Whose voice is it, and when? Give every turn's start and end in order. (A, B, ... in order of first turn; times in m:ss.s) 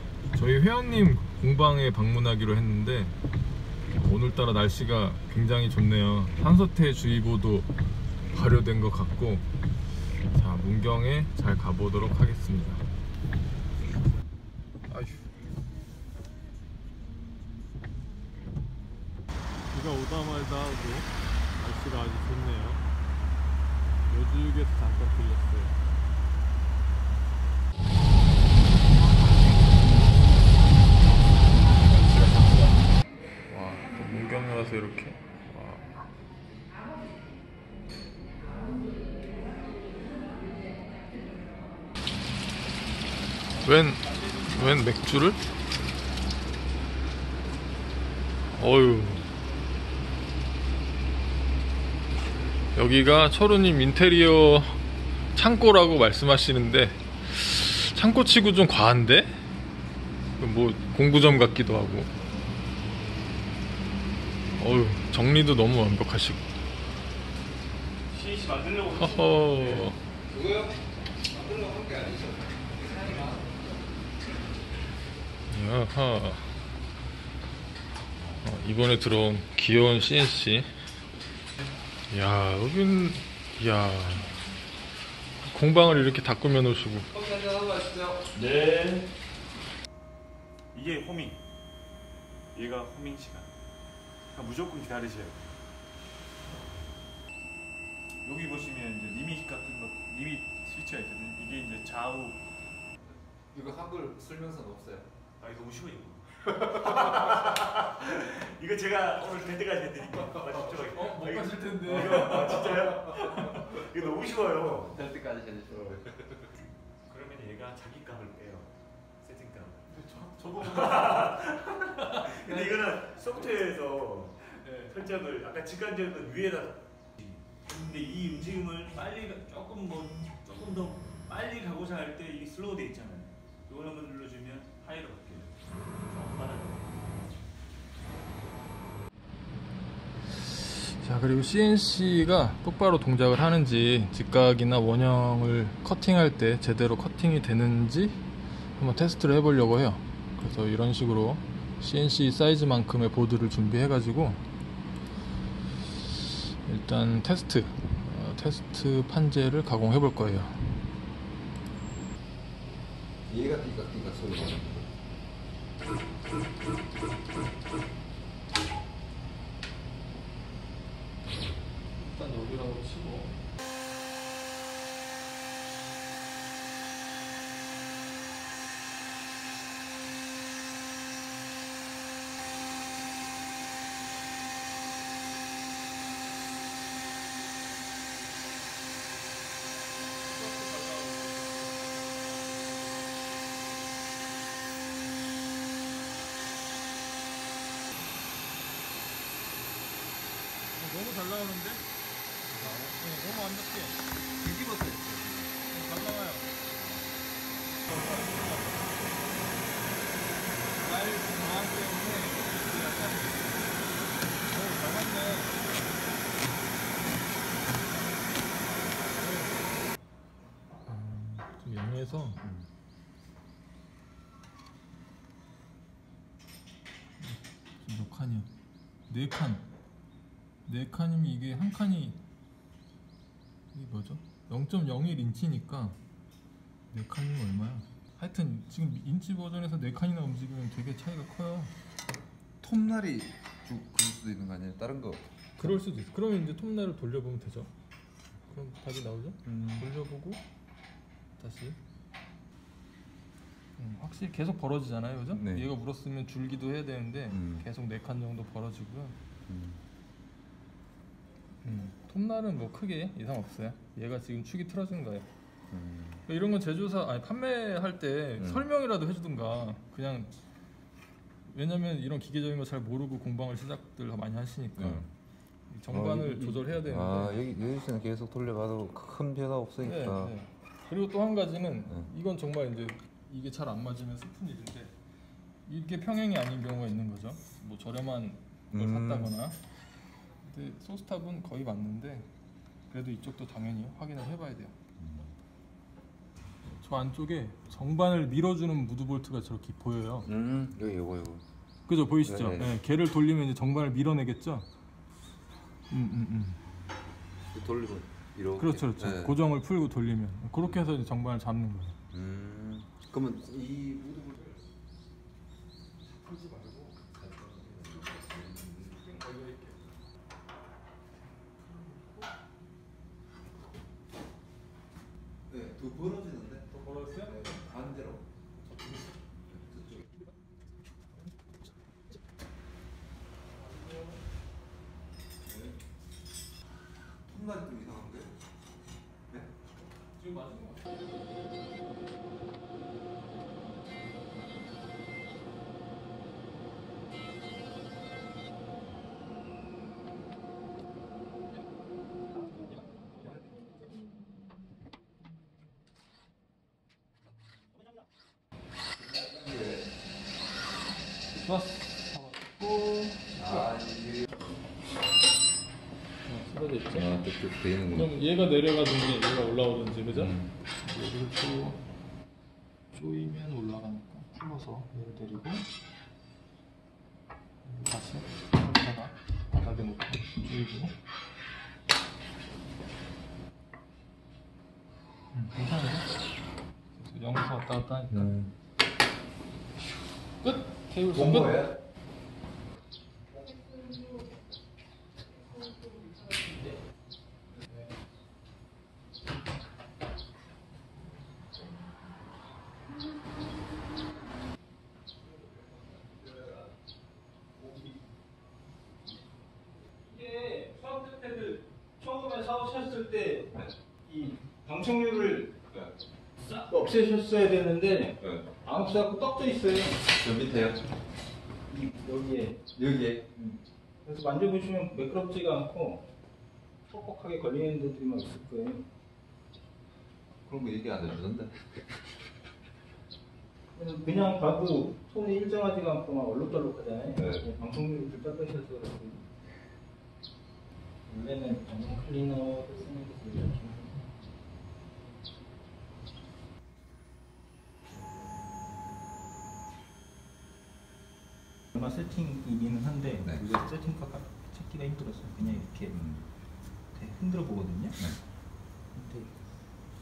0:00.3-0:03.2 A
0:04.0-0:09.5 A
0:10.1-0:12.8 A
0:14.9-0:15.3 A
0:19.7-0:22.8 A
0:24.1-0:25.8 A
0:31.8-0:32.9 A
0:33.5-0:35.9 A
0:43.6-0:45.4 A
0:48.5-0:49.3 A
0:52.7-0:54.8 A
0:55.3-0:59.4 A
1:00.4-1:02.1 A
1:04.6-1:06.4 A
1:08.1-1:09.9 B
1:09.0-1:10.0 A
1:10.3-1:13.4 C
1:15.5-1:16.5 A
1:18.4-1:20.7 A
1:22.1-1:24.3 A
1:25.4-1:27.1 A
1:27.1-1:28.3 D
1:28.3-1:29.0 C
1:30.7-1:31.4 B
1:32.5-1:33.5 B
1:34.3-1:35.4 B
1:38.2-1:42.4 B
1:43.0-1:45.1 D
1:45.4-1:54.9 B
1:50.8-1:53.0 A
1:54.8-1:56.5 D
1:57.0-1:59.8 B
1:59.9-2:01.4 A
2:00.7-2:15.5 B
2:02.0-2:02.8 A
2:04.6-2:04.9 A
2:07.2-2:11.5 C
2:14.5-2:15.5 C
2:16.1-2:16.8 B
2:16.4-2:16.9 C
2:20.3-2:28.2 A
2:28.8-2:34.4 A
2:35.9-2:40.8 A
2:43.3-2:44.9 D
2:52.0-2:53.4 A
3:10.3-3:11.7 A
3:20.7-3:21.8 A
3:22.5-3:23.0 D
3:22.8-3:24.0 A
3:24.3-3:25.5 D
3:25.7-3:26.5 A
3:26.6-3:27.3 D
3:27.8-3:28.9 A
3:30.8-3:33.8 A
3:34.4-3:35.6 A
3:39.1-3:39.6 A
3:40.9-3:42.4 A
3:42.4-3:42.7 D
3:47.2-3:48.5 A
3:49.1-3:49.6 A
3:50.6-3:52.2 A
3:53.7-3:56.0 A
3:56.9-4:01.7 A
4:02.6-4:05.8 D
4:05.6-4:07.7 A
4:08.4-4:10.4 A
4:09.4-4:09.9 D
4:11.4-4:11.8 A
4:13.8-4:19.2 A
4:15.3-4:15.7 D
4:17.3-4:17.6 D
4:19.5-4:19.8 D
4:21.6-4:25.3 A
4:25.7-4:26.2 D
4:26.3-4:30.3 A
4:28.4-4:28.7 D
4:31.4-4:35.1 A
4:34.8-4:35.1 D
4:35.7-4:37.4 A
4:35.9-4:40.3 D
4:39.8-4:44.9 A
4:45.6-4:49.6 A
4:48.7-4:49.3 D
4:50.4-4:52.3 A
4:52.9-4:54.8 A
4:55.0-4:55.3 D
4:56.6-5:00.3 A
5:00.2-5:01.4 D
5:01.9-5:04.6 A
5:02.2-5:02.8 D
5:05.9-5:06.6 A
5:07.5-5:09.4 D
5:08.5-5:12.0 A
5:12.1-5:14.6 D
5:16.0-5:16.9 A
5:17.1-5:19.3 D
5:19.0-5:19.8 A
5:21.6-5:22.3 A
5:25.5-5:28.2 D
5:26.7-5:27.4 A
5:28.7-5:29.0 A
5:29.5-5:30.1 D
5:33.5-5:34.2 A
5:35.4-5:35.8 D
5:37.2-5:38.3 D
5:40.2-5:40.9 A
5:59.0-5:59.9 D
6:01.3-6:03.7 A
6:03.4-6:04.5 D
6:06.2-6:07.3 A
6:06.9-6:08.1 D
6:07.9-6:11.8 A
6:10.1-6:10.5 D
6:12.9-6:15.7 A
6:17.6-6:20.9 A
6:25.3-6:26.1 A
6:26.9-6:28.3 A
6:28.1-6:28.5 D
6:30.4-6:31.7 A
6:31.1-6:31.8 D
6:50.1-6:53.5 C
6:50.1-6:50.7 B
6:52.5-6:52.8 B
6:54.0-6:55.5 C
6:55.7-6:56.0 D
6:56.5-6:59.9 C
6:58.2-6:58.5 D
7:00.0-7:00.9 D
7:01.7-7:02.6 C
7:02.8-7:03.3 D
7:03.4-7:06.0 C
7:06.9-7:08.8 C
7:10.4-7:12.0 D
7:13.7-7:19.2 C
7:17.2-7:17.4 D
7:21.1-7:24.1 C
7:31.7-7:35.9 C
7:35.9-7:36.3 D
7:36.9-7:38.0 C
7:38.9-7:39.3 C